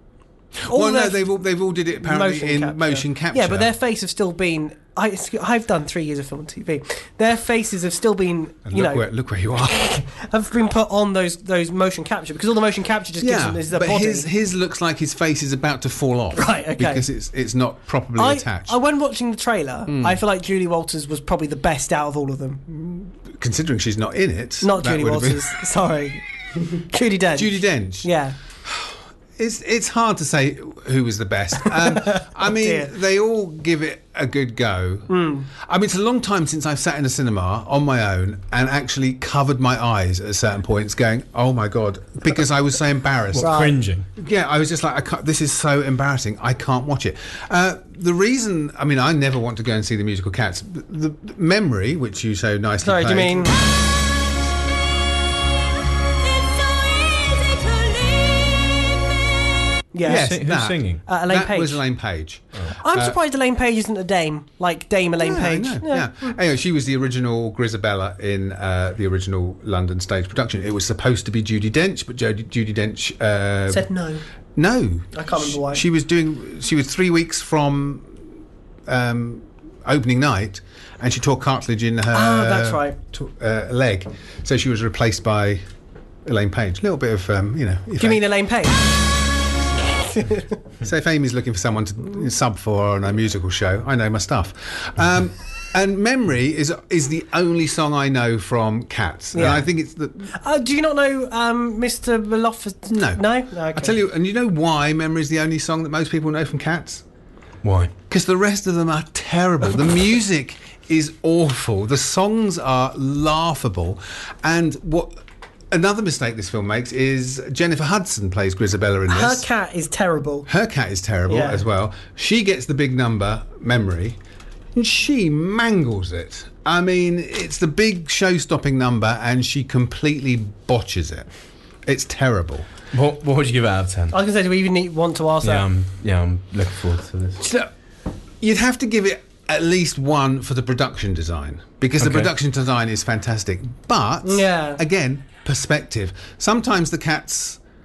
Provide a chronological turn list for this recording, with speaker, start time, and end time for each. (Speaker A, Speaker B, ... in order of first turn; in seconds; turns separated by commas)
Speaker A: 0.6-3.7, Speaker B: 0.7-1.4, Speaker B: 2.0-9.1, Speaker A: 8.7-10.0, Speaker B: 9.7-14.3, Speaker A: 13.2-18.8, Speaker B: 16.3-17.1, Speaker B: 18.1-22.6, Speaker A: 19.9-20.2, Speaker A: 22.7-25.6, Speaker B: 24.6-28.4, Speaker A: 27.3-28.1, Speaker A: 28.7-53.5, Speaker B: 31.6-32.9, Speaker B: 35.1-35.5, Speaker C: 43.3-44.1, Speaker B: 43.4-43.7, Speaker B: 52.8-53.5, Speaker B: 59.9-60.4, Speaker A: 60.0-63.2, Speaker C: 60.0-61.0, Speaker B: 61.0-61.8, Speaker B: 62.8-66.3, Speaker A: 65.2-73.9, Speaker B: 73.7-74.2, Speaker A: 74.5-78.1, Speaker B: 75.1-75.8, Speaker A: 78.9-85.6, Speaker B: 82.1-83.0, Speaker A: 86.2-88.2, Speaker B: 88.0-88.8, Speaker B: 90.1-90.4, Speaker A: 90.8-100.3, Speaker B: 99.3-99.7, Speaker B: 100.3-104.0, Speaker A: 102.9-107.0, Speaker C: 107.6-107.9, Speaker A: 108.1-115.2, Speaker A: 115.7-119.5, Speaker B: 119.1-120.5, Speaker A: 120.5-124.2, Speaker B: 121.3-121.6, Speaker A: 124.7-131.3, Speaker A: 131.8-132.7, Speaker C: 132.9-134.2, Speaker B: 134.1-135.7, Speaker C: 135.4-137.4, Speaker A: 137.4-137.7, Speaker A: 138.4-147.6, Speaker C: 142.0-142.3, Speaker B: 144.2-144.8